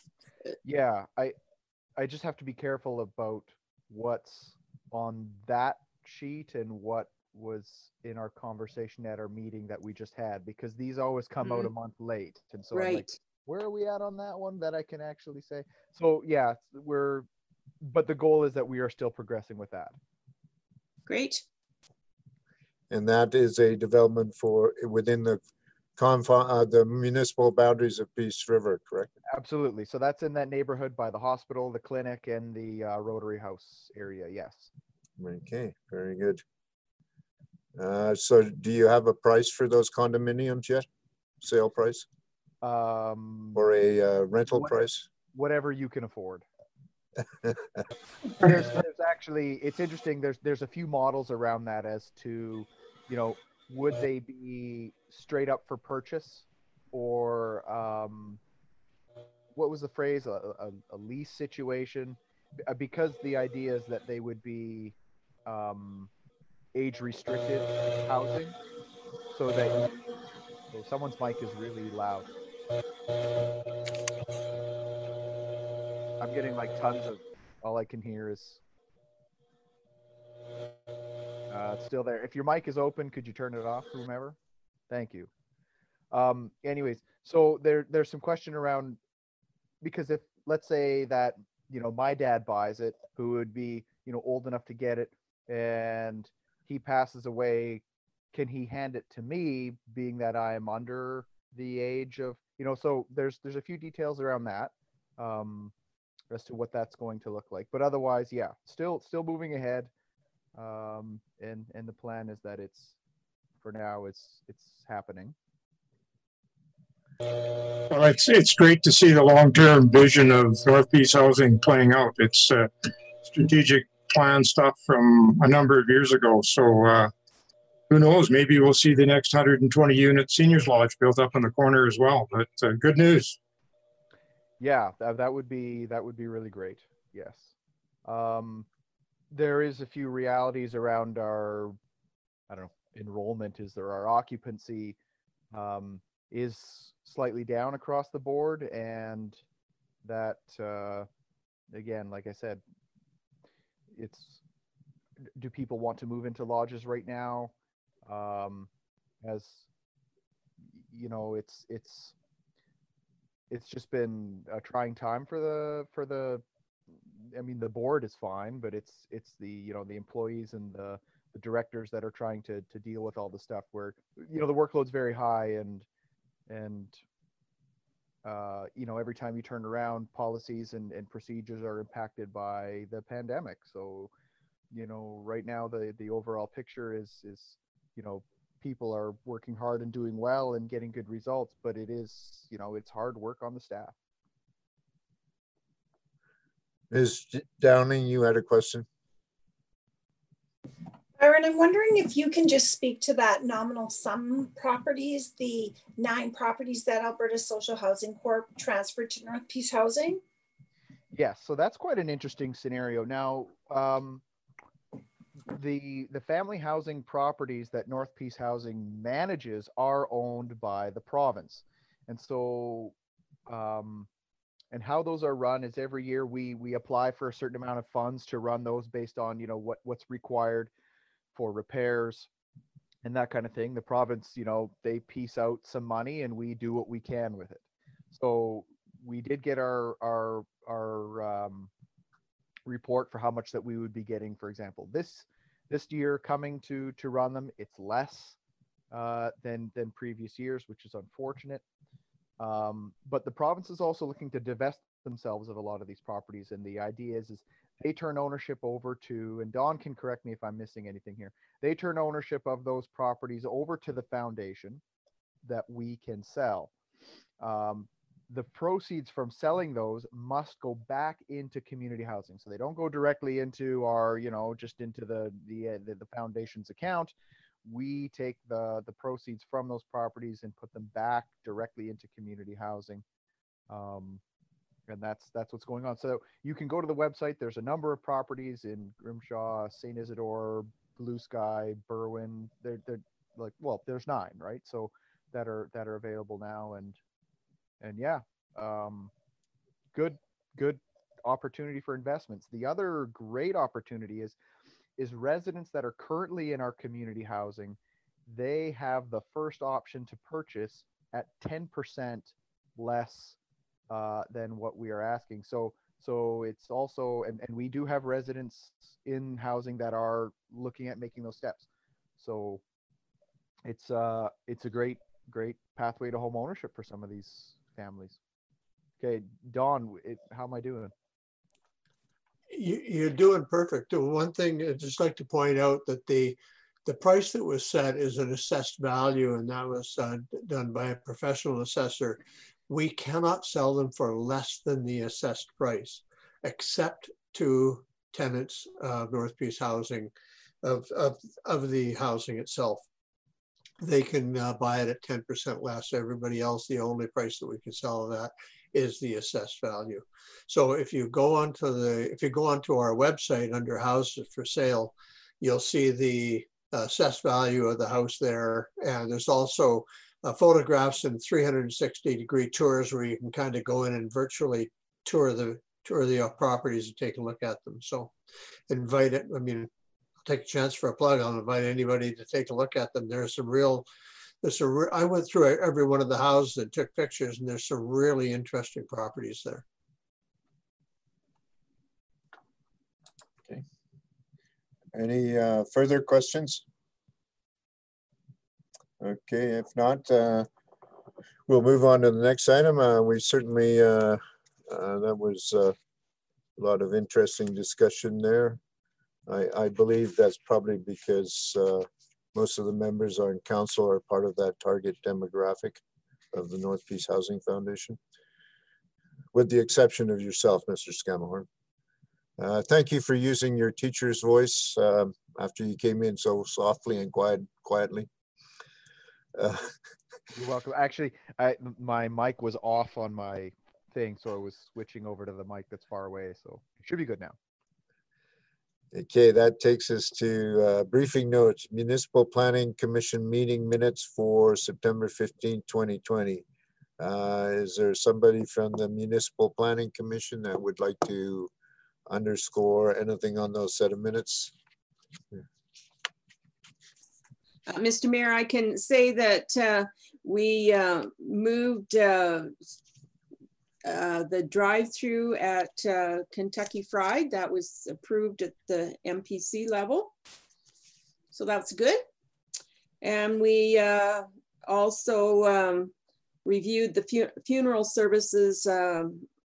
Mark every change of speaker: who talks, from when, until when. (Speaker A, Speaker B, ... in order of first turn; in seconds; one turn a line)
Speaker A: 0.6-1.4
Speaker A: 2.0-17.3
Speaker B: 11.4-11.7
Speaker B: 12.7-13.2
Speaker A: 17.8-19.9
Speaker B: 21.1-21.4
Speaker C: 22.9-25.4
Speaker C: 26.0-29.1
Speaker A: 29.3-34.7
Speaker C: 35.2-36.4
Speaker C: 37.8-40.9
Speaker C: 41.4-42.1
Speaker A: 42.6-43.6
Speaker C: 43.5-45.1
Speaker A: 44.5-46.5
Speaker A: 48.4-58.4
Speaker A: 59.5-65.0
Speaker A: 65.5-66.1
Speaker A: 66.7-68.6
Speaker A: 69.3-69.9
Speaker A: 70.7-72.3
Speaker A: 76.2-78.6
Speaker A: 81.5-84.4
Speaker A: 84.9-85.3
Speaker A: 86.1-89.0
Speaker A: 89.8-97.8
Speaker A: 98.3-105.7
Speaker A: 106.3-109.9
Speaker A: 110.5-112.9
Speaker A: 113.6-115.3
Speaker D: 117.9-127.1
Speaker D: 127.9-133.4
Speaker A: 134.6-137.5
Speaker A: 138.1-138.7
Speaker A: 139.3-141.8
Speaker A: 142.5-145.0
Speaker A: 145.5-149.4
Speaker A: 150.0-151.1
Speaker A: 151.7-152.6
Speaker A: 153.9-154.4
Speaker A: 155.4-157.5
Speaker A: 158.1-158.7
Speaker A: 159.2-159.7
Speaker A: 160.8-162.1
Speaker A: 163.5-166.4
Speaker A: 167.2-175.9
Speaker A: 176.5-177.0
Speaker A: 178.2-184.1
Speaker A: 184.7-193.9
Speaker C: 196.9-198.9
Speaker E: 201.2-210.2
Speaker A: 211.1-214.2
Speaker A: 215.5-222.9
Speaker A: 223.5-224.1
Speaker A: 224.7-230.7
Speaker A: 231.3-232.3
Speaker A: 233.0-241.7
Speaker A: 242.7-248.4
Speaker A: 248.9-251.6
Speaker A: 252.4-264.8
Speaker A: 265.4-266.7
Speaker A: 267.4-277.1
Speaker A: 277.6-283.0
Speaker A: 283.7-284.2
Speaker A: 284.9-297.0
Speaker A: 297.8-299.1
Speaker A: 299.9-304.4
Speaker A: 305.0-313.4
Speaker A: 313.9-321.6
Speaker A: 322.2-322.6
Speaker A: 323.6-328.2
Speaker A: 329.0-330.9
Speaker F: 332.5-352.9
Speaker F: 353.8-378.1
Speaker F: 378.7-379.7
Speaker F: 380.2-383.9
Speaker F: 384.4-389.6
Speaker C: 394.9-396.6
Speaker C: 399.0-400.5
Speaker C: 401.5-405.7
Speaker C: 406.6-408.6
Speaker C: 409.3-415.8
Speaker C: 416.3-418.0
Speaker C: 419.3-421.5
Speaker C: 422.4-428.1
Speaker C: 429.4-429.7
Speaker A: 430.4-437.4
Speaker C: 438.9-446.4
Speaker C: 447.0-451.5
Speaker C: 452.1-454.5
Speaker B: 457.7-462.6
Speaker B: 463.8-470.1
Speaker B: 471.3-472.1
Speaker B: 473.0-475.9
Speaker B: 476.4-479.3